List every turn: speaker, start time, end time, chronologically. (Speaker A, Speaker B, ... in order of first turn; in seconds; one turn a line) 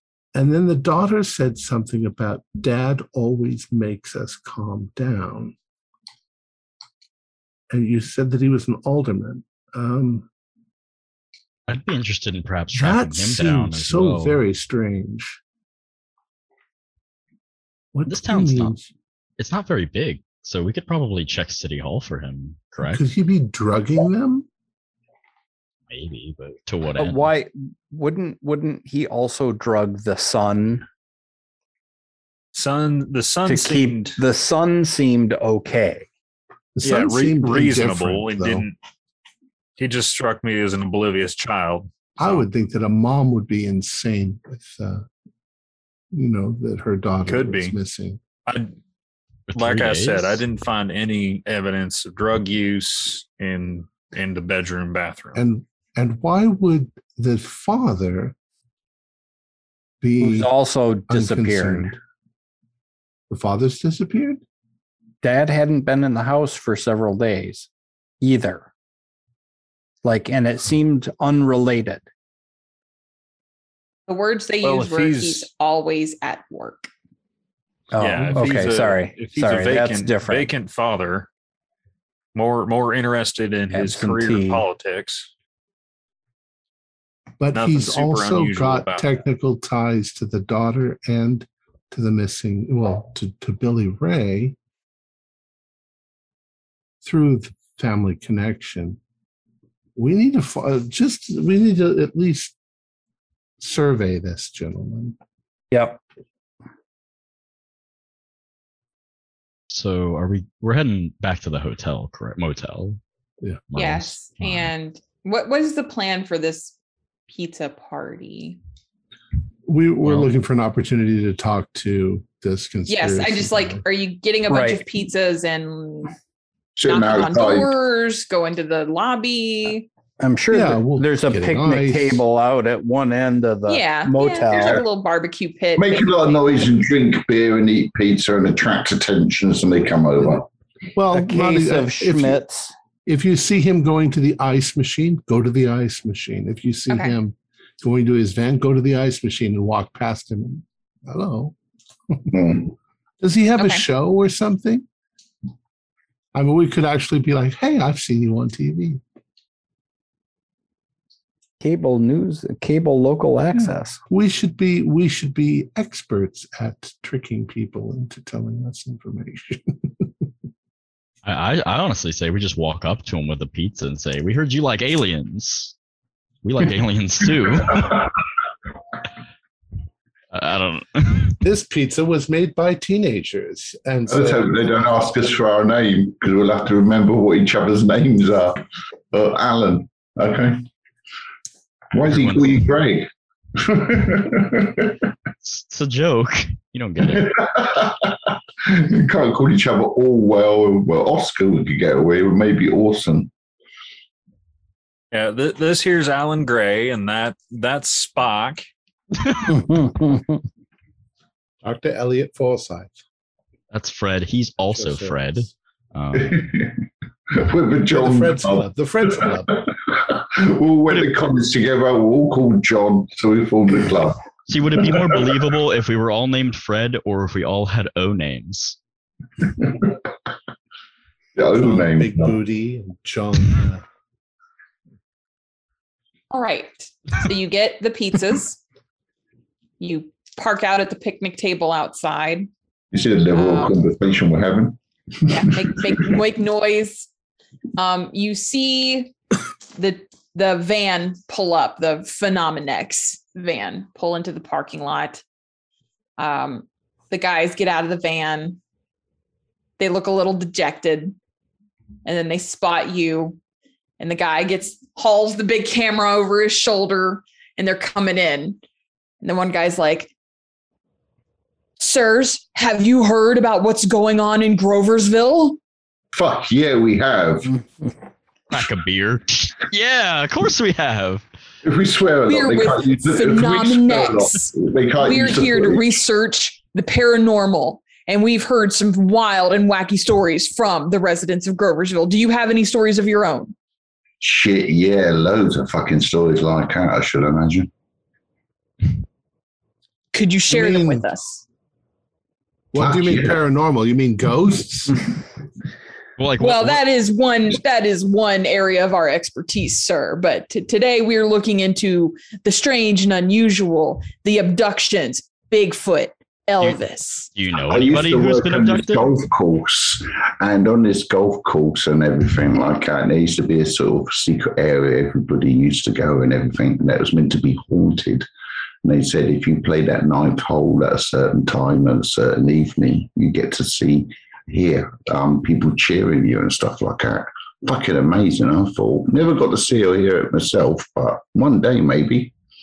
Speaker A: 0.3-5.5
Speaker A: 7.7-10.3
Speaker B: 11.7-14.4
Speaker A: 12.7-15.4
Speaker A: 17.9-18.9
Speaker B: 18.1-18.7
Speaker B: 19.4-23.0
Speaker A: 22.8-24.5
Speaker B: 25.9-27.3
Speaker C: 27.0-30.9
Speaker D: 32.5-34.2
Speaker C: 33.5-36.0
Speaker A: 36.7-38.6
Speaker D: 36.8-38.8
Speaker D: 39.8-42.4
Speaker A: 42.2-45.0
Speaker A: 46.1-48.2
Speaker D: 47.2-47.8
Speaker D: 48.5-48.8
Speaker B: 49.5-50.4
Speaker D: 49.5-55.4
Speaker A: 55.3-58.3
Speaker A: 60.0-60.5
Speaker C: 60.2-61.9
Speaker A: 61.1-62.0
Speaker A: 63.3-64.4
Speaker C: 65.2-67.7
Speaker C: 68.2-68.7
Speaker C: 70.0-72.0
Speaker E: 74.1-76.9
Speaker D: 74.6-75.5
Speaker C: 77.9-80.5
Speaker D: 78.0-81.3
Speaker D: 82.3-85.3
Speaker C: 83.7-84.6
Speaker A: 87.4-94.5
Speaker D: 87.5-89.1
Speaker A: 97.0-99.0
Speaker A: 100.0-102.5
Speaker A: 103.6-105.1
Speaker C: 105.7-106.0
Speaker B: 109.7-113.0
Speaker B: 113.7-114.7
Speaker E: 113.8-116.7
Speaker E: 117.3-118.6
Speaker A: 119.7-123.8
Speaker E: 122.9-126.1
Speaker C: 124.5-124.8
Speaker F: 126.8-127.7
Speaker E: 126.8-129.9
Speaker C: 130.2-134.8
Speaker A: 130.5-132.2
Speaker E: 133.7-136.4
Speaker F: 134.5-134.8
Speaker F: 135.8-140.5
Speaker A: 140.9-142.4
Speaker C: 141.1-142.7
Speaker A: 143.1-151.5
Speaker E: 146.9-147.2
Speaker F: 152.3-152.7
Speaker A: 153.2-154.8
Speaker E: 153.6-153.8
Speaker A: 156.3-159.0
Speaker C: 161.6-164.0
Speaker A: 163.6-170.1
Speaker B: 171.2-175.7
Speaker B: 176.4-178.1
Speaker B: 180.3-181.4
Speaker A: 181.4-184.5
Speaker F: 184.1-190.7
Speaker F: 191.9-195.1
Speaker B: 192.1-192.6
Speaker B: 195.4-197.3
Speaker F: 197.0-203.3
Speaker D: 205.1-208.7
Speaker C: 209.5-210.4
Speaker A: 211.6-212.9
Speaker B: 213.7-216.4
Speaker A: 214.7-215.5
Speaker F: 216.1-224.2
Speaker A: 217.9-219.6
Speaker B: 224.5-228.8
Speaker F: 224.8-225.2
Speaker F: 229.4-229.9
Speaker F: 231.3-232.4
Speaker A: 231.6-233.8
Speaker E: 236.3-238.6
Speaker E: 239.8-242.5
Speaker F: 242.9-245.6
Speaker E: 243.3-243.8
Speaker E: 245.3-247.1
Speaker E: 247.8-249.1
Speaker E: 249.8-255.2
Speaker E: 256.2-258.6
Speaker E: 259.8-261.1
Speaker E: 262.0-263.4
Speaker E: 264.0-268.6
Speaker E: 269.2-270.1
Speaker E: 271.8-275.6
Speaker F: 276.1-277.6
Speaker B: 278.5-281.2
Speaker F: 281.6-285.9
Speaker E: 282.3-293.5
Speaker F: 294.2-297.7
Speaker E: 300.1-301.4
Speaker A: 300.5-301.1
Speaker A: 302.7-305.1
Speaker F: 302.8-303.4
Speaker B: 306.2-306.8
Speaker E: 306.4-317.3
Speaker B: 317.3-319.1
Speaker F: 317.7-328.2
Speaker F: 328.8-342.3